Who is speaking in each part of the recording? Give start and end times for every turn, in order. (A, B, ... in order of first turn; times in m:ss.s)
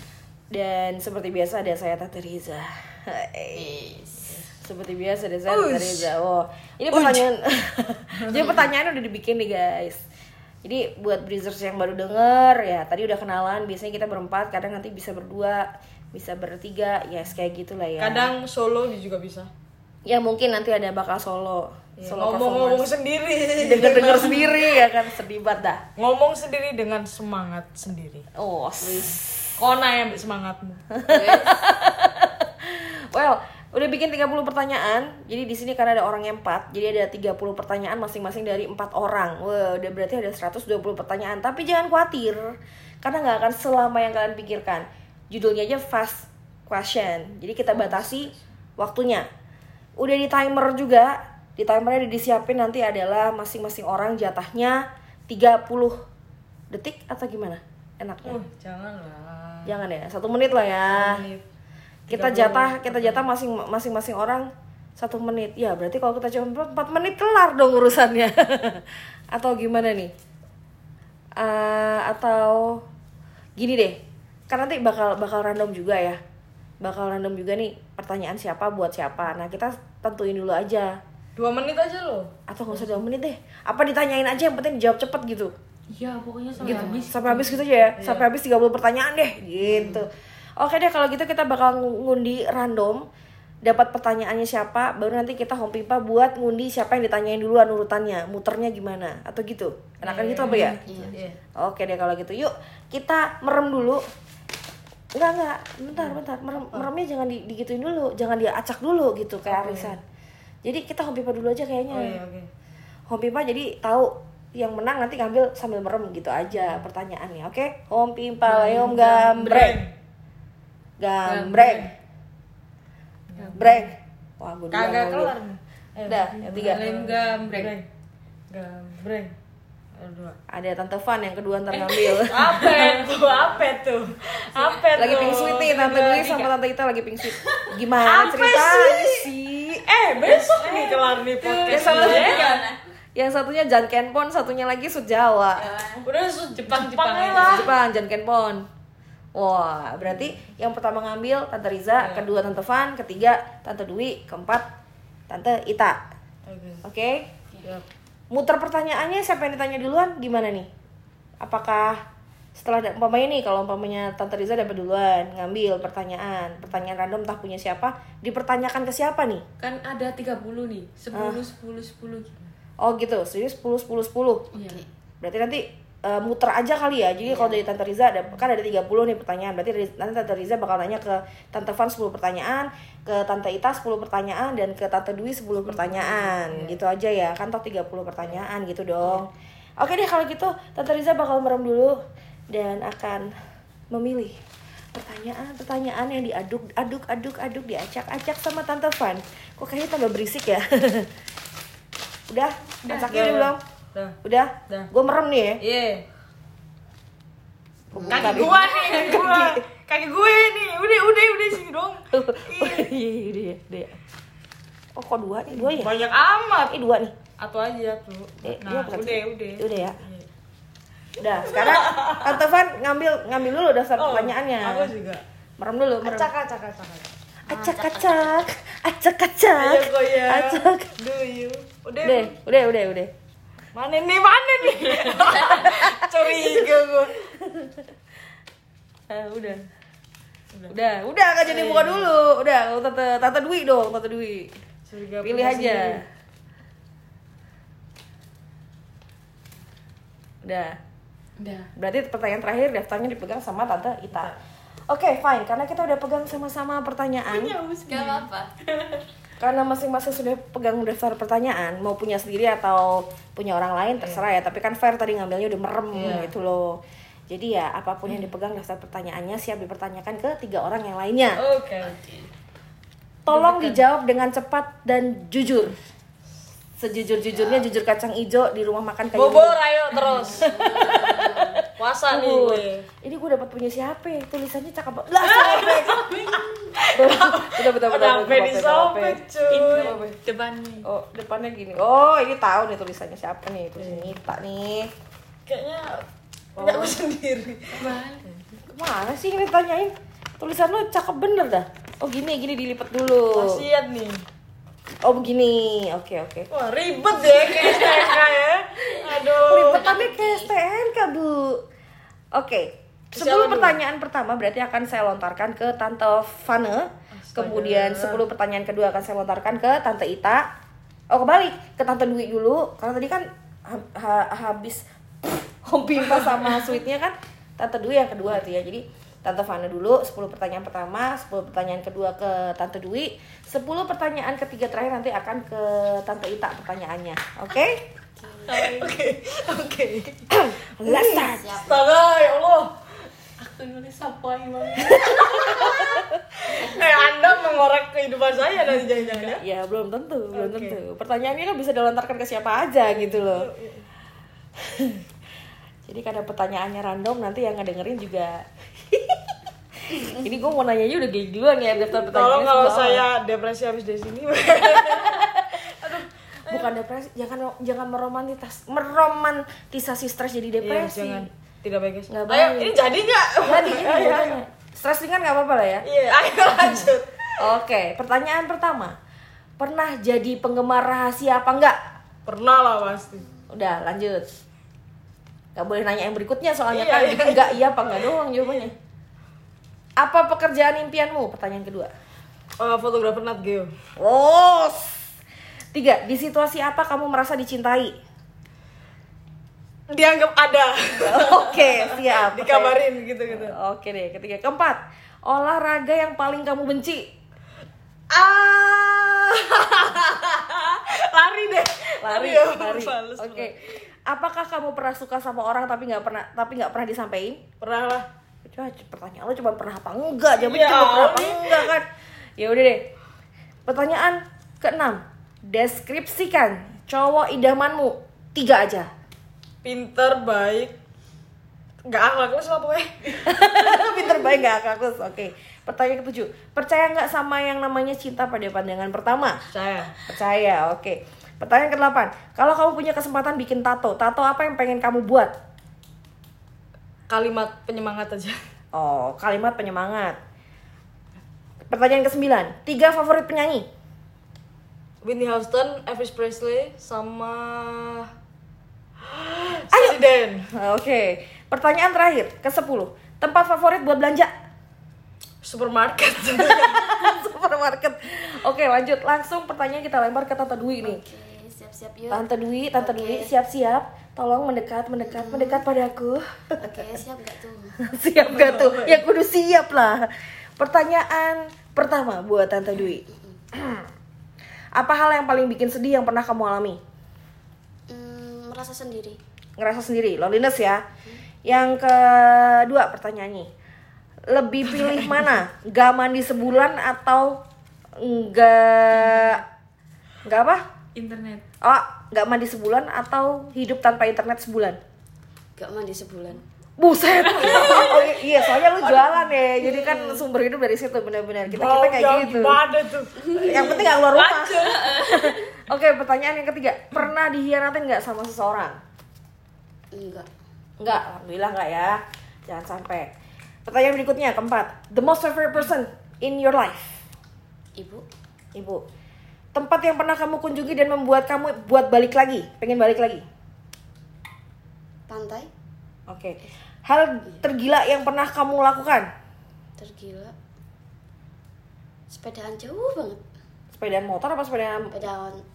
0:00.5-0:03.8 A
0:03.6-0:04.4 B
0:04.6-0:10.0 A
0:05.5-0:06.1 C
0:06.9-0:07.3 C
0:08.2-0:08.7 C
0:10.6-0:18.3 A
0:18.0-0:19.5 C
0:20.1-0:22.9 A
0:22.0-0:24.6 C
0:23.6-0:25.8 A
0:26.0-0:28.3 C
0:28.4-0:29.6 A
0:29.6-0:30.8 C
0:30.9-0:49.3 A
0:31.1-0:31.6 B
0:50.0-0:56.0 A
0:56.7-0:58.4 A
0:58.2-0:59.8 C
0:59.7-1:01.2 A
1:00.9-1:01.5 C
1:02.1-1:10.1 A
1:02.1-1:03.3 C
1:11.4-1:12.8 A
1:13.6-1:14.0 A
1:14.5-1:16.2 A
1:16.8-1:21.0 A
1:21.4-1:22.3 C
1:22.5-1:25.5 A
1:25.9-1:27.6 D
1:26.6-1:33.1 A
1:26.6-1:27.0 B
1:28.0-1:28.3 C
1:33.6-1:40.8 A
1:40.0-1:41.2 D
1:40.0-1:41.4 C
1:40.9-1:41.2 B
1:41.6-1:44.0 A
1:45.2-1:50.0 A
1:45.9-1:46.9 C
1:49.5-1:50.0 C
1:50.6-1:52.2 A
1:51.9-1:52.5 C
1:53.1-1:59.8 A
1:58.5-1:59.9 C
1:58.5-1:59.8 D
2:01.0-2:01.9 A
2:01.3-2:01.9 D
2:03.3-2:03.8 C
2:03.4-2:03.9 D
2:03.6-2:05.3 A
2:04.7-2:07.9 C
2:06.0-2:06.8 A
2:06.6-2:07.8 D
2:08.5-2:09.4 C
2:09.9-2:10.4 C
2:10.5-2:12.5 A
2:11.7-2:13.7 D
2:12.3-2:15.9 C
2:14.6-2:16.5 D
2:15.0-2:19.8 A
2:17.3-2:17.8 D
2:18.0-2:19.3 C
2:19.8-2:22.6 C
2:20.2-2:22.8 D
2:21.7-2:22.6 A
2:23.2-2:25.7 A
2:25.7-2:26.0 D
2:26.0-2:27.7 C
2:26.6-2:27.7 D
2:27.3-2:28.7 A
2:29.4-2:34.7 A
2:32.0-2:32.3 C
2:35.3-2:36.0 A
2:36.5-2:36.8 C
2:36.8-2:37.3 A
2:38.3-2:40.7 A
2:41.4-2:42.0 A
2:42.6-2:49.4 A
2:49.6-2:52.3 D
2:51.1-2:51.4 A
2:52.8-2:54.5 A
2:54.5-2:54.8 D
2:54.5-2:54.9 B
2:55.2-3:12.0 A
2:57.3-2:57.6 B
3:05.6-3:06.8 C
3:12.5-3:13.3 A
3:13.9-3:14.4 A
3:14.9-3:21.1 A
3:22.3-3:23.6 A
3:22.8-3:23.4 D
3:23.1-3:24.2 C
3:24.2-3:25.6 A
3:25.6-3:26.1 C
3:27.9-3:29.5 A
3:28.0-3:28.7 B
3:28.1-3:32.9 C
3:28.3-3:29.4 D
3:32.1-3:34.0 A
3:35.0-3:35.9 A
3:35.5-3:36.7 C
3:36.7-3:37.1 A
3:37.4-3:40.3 C
3:38.4-3:40.0 A
3:41.2-3:44.9 A
3:41.4-3:42.4 C
3:44.0-3:45.2 C
3:45.6-3:46.3 A
3:46.0-3:47.1 C
3:47.5-3:50.9 A
3:47.5-3:48.4 B
3:49.6-3:52.3 C
3:52.0-3:53.1 A
3:53.7-3:57.2 C
3:55.3-3:57.8 A
3:59.1-3:59.7 A
4:00.7-4:04.6 A
4:01.4-4:02.1 C
4:04.9-4:06.0 C
4:05.2-4:06.0 A
4:10.4-4:10.8 A
4:11.4-4:11.7 D
4:11.8-4:14.3 A
4:14.1-4:14.4 C
4:14.9-4:17.6 A
4:17.3-4:19.0 D
4:17.9-4:18.5 B
4:19.4-4:31.4 A
4:24.0-4:24.2 C
4:25.9-4:26.4 C
4:31.4-4:32.0 C
4:31.8-4:32.3 B
4:33.3-4:35.8 A
4:33.3-4:33.8 D
4:36.8-4:41.5 A
4:37.3-4:37.6 B
4:39.1-4:41.1 C
4:40.0-4:41.6 B
4:41.7-4:42.9 C
4:42.1-4:46.1 A
4:45.2-4:50.1 C
4:46.0-4:46.5 D
4:46.9-4:49.2 A
4:49.5-4:50.9 D
4:50.8-4:54.9 A
4:53.8-4:54.2 C
4:55.5-4:58.4 C
4:57.7-4:58.3 D
4:58.7-5:03.6 A
5:03.3-5:04.2 C
5:05.0-5:06.5 A
5:06.5-5:09.8 C
5:07.5-5:08.0 B
5:09.0-5:10.5 B
5:09.5-5:11.6 A
5:12.3-5:20.5 A
5:13.2-5:13.8 C
5:17.1-5:18.2 C
5:21.1-5:37.9 A
5:26.0-5:26.7 C
5:38.2-5:38.7 B
5:38.5-5:40.3 C
5:38.5-5:38.9 D
5:40.3-5:41.7 A
5:40.8-5:42.8 C
5:41.4-5:41.8 B
5:43.4-5:45.9 D
5:45.0-5:49.4 C
5:45.1-5:45.6 A
5:46.6-5:47.0 B
5:49.4-5:53.5 A
5:50.3-5:50.8 C
5:52.9-5:53.9 C
5:54.6-5:55.0 A
5:55.9-5:59.2 A
5:59.9-6:03.0 A
6:02.1-6:06.8 C
6:04.7-6:11.3 A
6:10.6-6:14.4 C
6:12.1-6:12.8 A
6:13.4-6:15.9 A
6:15.8-6:17.4 C
6:17.4-6:19.0 A
6:19.6-6:21.8 A
6:22.3-6:23.3 C
6:23.5-6:24.3 A
6:25.6-6:28.7 A
6:26.7-6:27.7 C
6:30.0-6:31.9 A
6:32.6-6:33.7 C
6:34.0-6:35.1 A
6:35.7-6:38.0 A
6:39.9-6:43.6 C
6:41.0-6:42.8 A
6:43.3-6:47.1 A
6:48.1-6:53.8 C
6:52.0-6:57.4 A
6:57.6-6:58.1 C
6:58.4-7:02.9 A
7:00.3-7:01.8 C
7:03.7-7:08.9 A
7:09.6-7:10.7 C
7:11.9-7:14.1 C
7:13.2-7:19.4 A
7:19.5-7:20.0 C
7:20.0-7:25.3 A
7:27.1-7:28.4 C
7:28.7-7:30.2 A
7:31.7-7:33.7 A
7:35.0-7:38.1 C
7:39.0-7:40.5 C
7:39.7-7:40.0 A
7:40.5-7:44.3 A
7:45.4-7:47.1 C
7:46.6-7:51.0 A
7:50.8-7:52.2 B
7:52.1-7:56.9 A
7:52.8-7:53.3 B
7:55.0-7:55.6 B
7:56.6-7:57.8 B
7:57.8-8:03.9 A
7:58.2-7:59.0 C
8:03.1-8:03.4 B
8:04.8-8:06.8 A
8:07.9-8:09.2 B
8:09.6-8:10.8 A
8:11.4-8:13.5 A
8:14.3-8:17.4 A
8:18.0-8:19.4 A
8:20.2-8:20.6 A
8:21.0-8:21.4 D
8:21.6-8:24.8 A
8:25.6-8:26.4 B
8:26.8-8:32.6 A
8:27.2-8:28.1 D
8:27.4-8:27.9 C
8:28.9-8:29.2 C
8:29.6-8:30.2 B
8:31.5-8:35.0 C
8:33.2-8:33.7 B
8:33.4-8:38.8 A
8:34.8-8:35.3 D
8:39.9-8:40.3 B
8:40.8-8:43.1 A
8:43.7-8:47.0 A
8:47.8-8:48.0 B
8:48.6-8:48.8 A
8:49.5-8:53.2 A
8:55.1-8:55.5 B
8:56.1-8:59.1 A
8:59.8-9:00.3 B
9:02.1-9:03.2 B
9:03.7-9:05.0 A
9:04.9-9:05.4 B